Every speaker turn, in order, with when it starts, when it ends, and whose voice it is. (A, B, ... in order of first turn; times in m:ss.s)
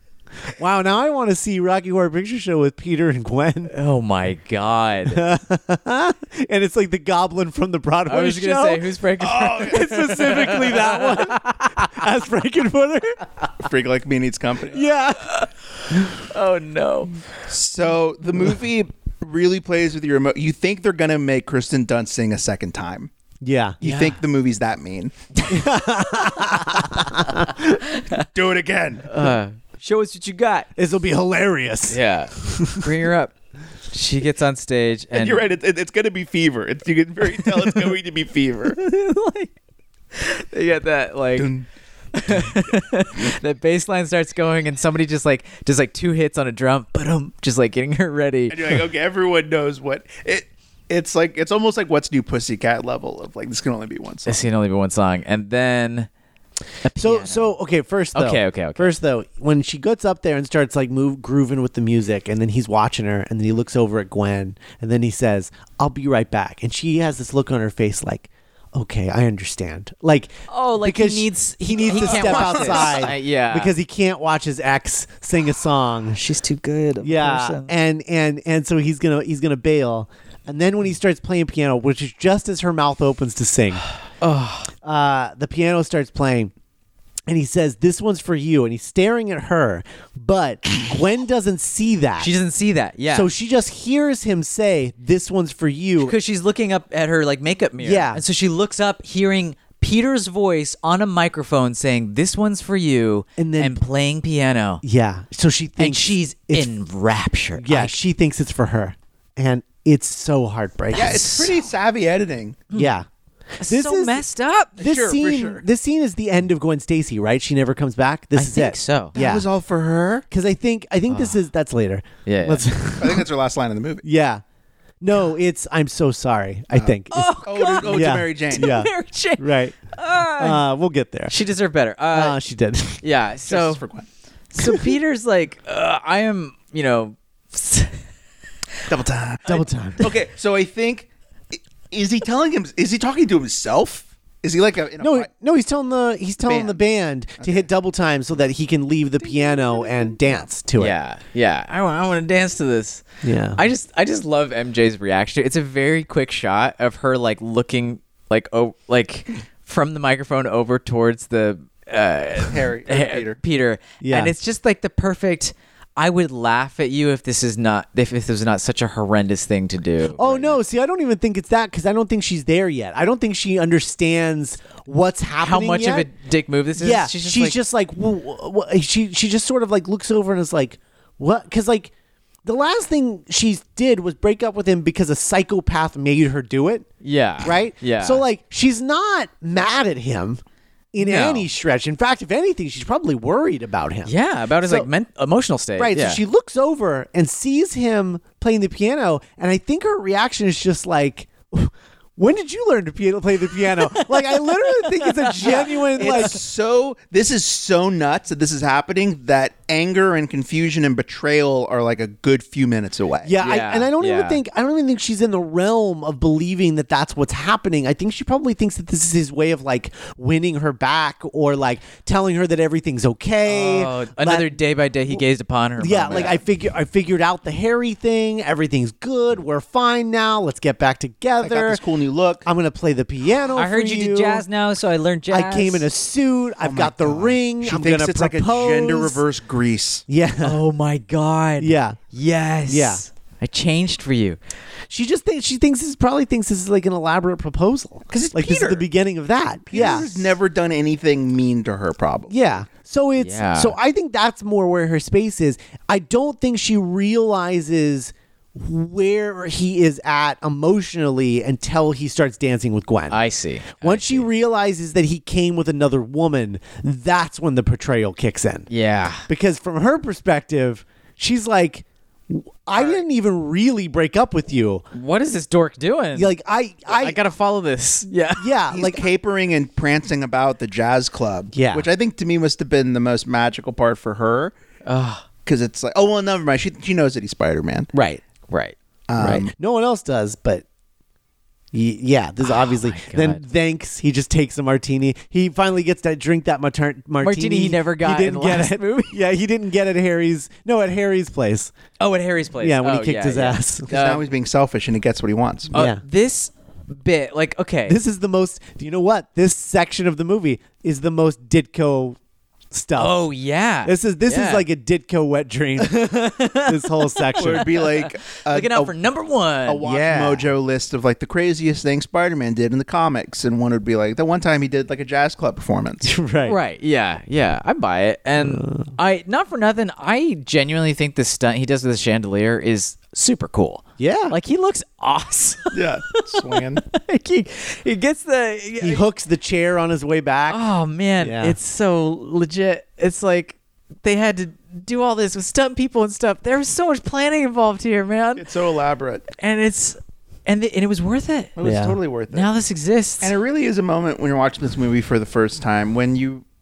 0:00.5-0:03.7 A
0:03.7-0:05.3 B
0:05.1-0:08.8 A
0:08.1-0:12.0 B
0:09.2-0:10.7 C
0:09.5-0:13.2 A
0:13.6-0:14.8 C
0:14.7-0:15.4 A
0:15.3-0:17.2 B
0:17.5-0:23.1 C
0:23.4-0:23.8 A
0:23.8-0:25.1 C
0:23.8-0:24.2 B
0:25.5-0:27.6 A
0:26.1-0:28.2 B
0:28.3-0:29.1 C
0:29.0-0:30.7 B
0:30.8-0:32.9 A
0:31.9-0:33.3 B
0:33.9-0:35.4 B
0:35.1-0:38.8 C
0:37.4-0:37.9 B
0:38.7-0:39.5 B
0:40.1-0:41.5 B
0:41.4-0:41.6 C
0:42.1-0:48.8 B
0:48.5-0:54.4 C
0:54.2-0:56.1 B
0:56.8-0:57.5 B
0:57.0-1:16.2 A
0:58.1-0:58.9 B
1:10.5-1:13.7 B
1:11.8-1:13.1 C
1:16.1-1:17.7 B
1:17.0-1:23.8 A
1:24.2-1:24.7 B
1:24.8-1:26.5 A
1:27.3-1:32.3 A
1:32.2-1:33.3 B
1:33.1-1:36.1 A
1:36.0-1:44.8 B
1:37.8-1:38.2 A
1:43.4-1:43.8 A
1:44.8-1:46.7 A
1:45.8-1:48.0 B
1:47.6-1:51.3 A
1:50.9-1:51.6 B
1:50.9-1:52.6 C
1:52.7-1:53.0 B
1:52.7-1:53.0 A
1:53.6-1:54.8 B
1:53.6-1:54.2 A
1:54.8-1:55.6 C
1:54.8-1:59.5 A
1:58.3-1:59.2 B
1:59.1-2:00.2 C
2:00.3-2:03.3 A
2:02.2-2:02.6 B
2:03.0-2:04.0 C
2:04.0-2:04.4 A
2:05.0-2:09.8 A
2:06.7-2:08.7 C
2:07.1-2:10.6 B
2:10.3-2:11.3 A
2:11.3-2:12.4 B
2:12.1-2:13.0 A
2:13.0-2:13.8 B
2:13.5-2:14.0 C
2:14.5-2:18.1 B
2:14.6-2:14.9 A
2:18.9-2:25.3 C
2:19.4-2:20.1 A
2:25.0-2:31.0 A
2:26.4-2:26.8 C
2:27.4-2:27.7 C
2:30.1-2:30.4 C
2:30.8-2:50.6 B
2:33.2-2:33.6 A
2:42.4-2:43.4 C
2:44.0-2:44.3 A
2:50.1-2:56.1 A
2:55.4-2:57.5 B
2:56.8-3:01.9 A
3:02.4-3:06.9 A
3:07.0-3:08.2 B
3:07.4-3:10.4 A
3:10.9-3:14.9 A
3:11.0-3:11.5 B
3:14.0-3:16.2 B
3:15.8-3:26.4 A
3:23.6-3:26.4 B
3:25.5-3:33.4 C
3:33.2-3:44.5 A
3:33.4-3:34.4 B
3:43.4-3:46.4 B
3:45.8-3:51.8 A
3:51.4-3:52.5 C
3:52.4-3:54.4 A
3:53.5-3:55.8 B
3:55.3-3:59.2 A
3:56.6-4:00.0 C
4:00.1-4:00.6 A
4:00.4-4:04.4 B
4:01.6-4:02.0 A
4:02.7-4:03.0 A
4:04.9-4:10.3 A
4:08.1-4:08.8 C
4:09.7-4:12.4 C
4:12.3-4:23.2 A
4:13.2-4:13.8 B
4:23.1-4:24.3 B
4:23.8-4:28.7 A
4:28.7-4:29.2 B
4:29.3-4:34.8 A
4:34.9-4:36.3 B
4:36.1-4:37.2 A
4:36.9-4:38.5 B
4:38.4-4:39.0 A
4:38.7-4:44.5 C
4:41.5-4:41.9 A
4:44.8-4:45.2 B
4:45.4-4:47.9 C
4:47.9-4:48.2 A
4:48.5-4:48.7 B
4:49.1-4:49.5 C
4:49.2-4:50.6 A
4:51.7-5:01.7 A
4:52.4-4:53.4 B
4:57.2-4:59.2 B
5:02.0-5:04.2 B
5:02.6-5:03.9 A
5:03.9-5:05.7 C
5:05.7-5:08.0 B
5:05.7-5:06.0 A
5:07.9-5:12.2 A
5:12.7-5:13.2 A
5:12.9-5:14.6 B
5:13.8-5:17.7 A
5:16.4-5:19.9 B
5:17.4-5:18.9 C
5:19.7-5:26.1 C
5:19.8-5:20.5 A
5:26.0-5:26.6 A
5:26.4-5:39.0 B
5:28.4-5:28.9 A
5:34.0-5:34.3 A
5:35.7-5:36.8 C
5:38.8-5:40.6 A
5:40.5-5:48.5 B
5:41.2-5:41.6 A
5:48.4-5:49.2 C
5:49.3-5:51.5 B
5:51.6-5:52.5 C
5:51.6-5:52.0 A
5:52.3-5:53.3 B
5:53.2-5:56.4 C